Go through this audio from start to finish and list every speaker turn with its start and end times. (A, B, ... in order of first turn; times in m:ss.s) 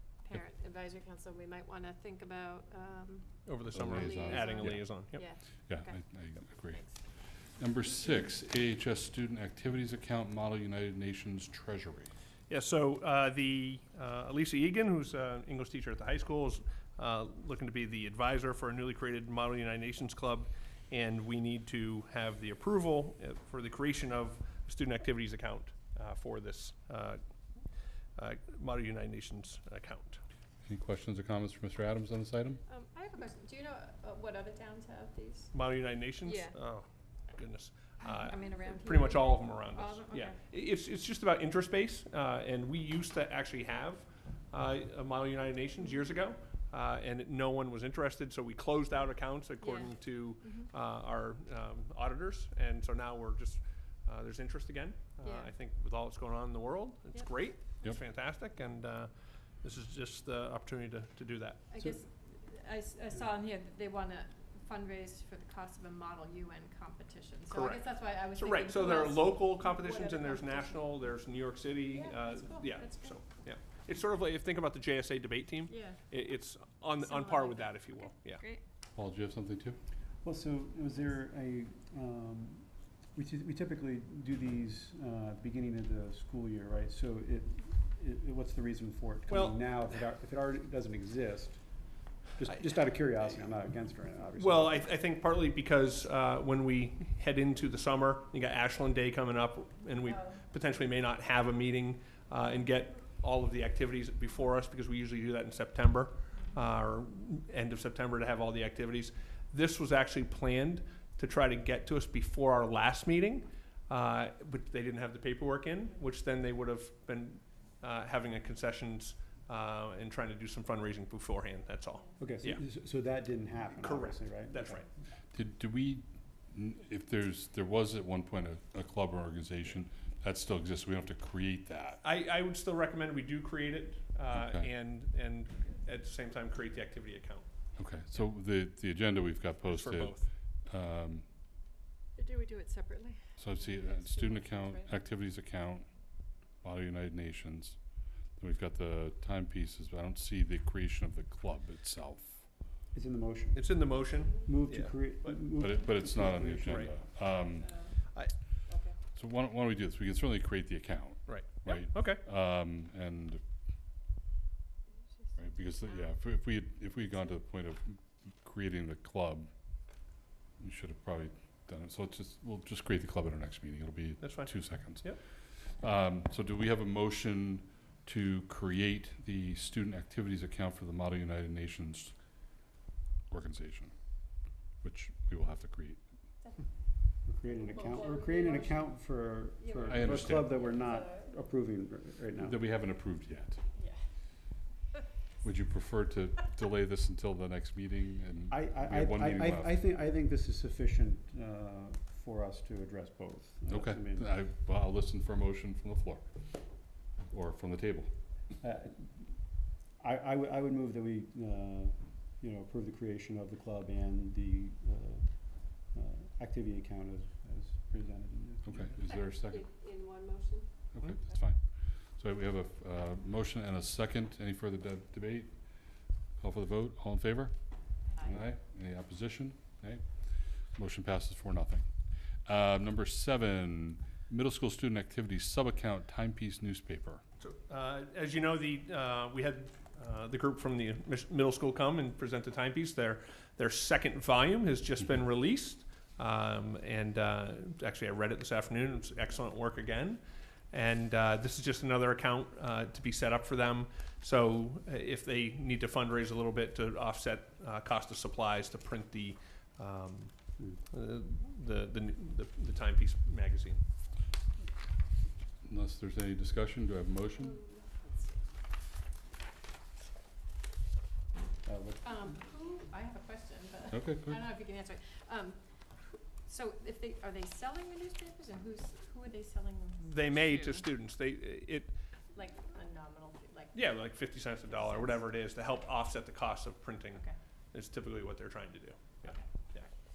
0:00.2-0:06.0 A
0:03.4-0:05.2 B
0:03.7-0:12.1 C
0:06.7-0:07.0 A
0:12.5-0:27.2 B
0:28.2-0:30.2 B
0:30.6-0:32.6 C
0:32.7-0:35.5 A
0:35.5-0:59.1 B
0:36.2-0:36.5 A
0:38.0-0:40.4 A
0:49.6-0:50.7 A
0:55.2-0:55.5 A
0:57.1-0:57.8 A
0:59.6-1:01.6 B
1:01.7-1:10.9 A
1:07.5-1:18.4 B
1:11.9-1:13.2 A
1:15.7-1:16.0 A
1:17.0-1:18.6 A
1:19.0-1:19.8 C
1:20.2-1:34.7 D
1:29.3-1:30.0 B
1:34.4-2:02.6 B
1:40.1-1:40.4 A
2:02.2-2:04.8 D
2:03.7-2:04.9 B
2:05.3-2:12.0 C
2:12.0-2:18.2 B
2:14.3-2:14.7 C
2:17.8-2:21.2 C
2:19.6-2:20.2 B
2:22.2-2:24.9 A
2:23.4-2:32.5 C
2:32.9-2:37.0 D
2:33.5-2:35.6 B
2:35.6-2:37.7 C
2:36.6-2:37.0 B
2:37.6-2:37.9 A
2:37.9-2:38.3 B
2:38.6-2:39.0 A
2:39.1-2:43.4 C
2:41.2-2:42.2 B
2:45.4-2:50.0 C
2:50.6-3:02.2 C
2:54.2-2:55.2 B
3:03.3-3:04.0 C
3:04.7-3:06.0 C
3:07.2-3:12.6 D
3:07.5-3:08.8 A
3:09.6-3:11.2 A
3:09.8-3:10.6 C
3:12.4-3:13.6 C
3:13.8-3:14.0 A
3:15.4-3:19.8 C
3:18.5-3:24.3 D
3:23.7-3:26.6 C
3:27.3-3:28.1 C
3:28.6-3:39.0 D
3:38.6-3:39.7 C
3:39.8-3:40.1 A
3:40.9-3:57.2 C
3:57.4-4:10.2 B
4:10.7-4:20.3 B
4:20.6-4:20.8 D
4:20.9-4:23.8 B
4:25.6-4:27.6 C
4:27.4-4:28.4 A
4:31.6-4:32.4 D
4:32.0-4:35.6 A
4:33.9-4:34.6 C
4:36.4-4:40.8 A
4:40.0-4:42.0 B
4:42.3-4:43.7 A
4:43.7-4:49.9 B
4:44.8-4:45.1 A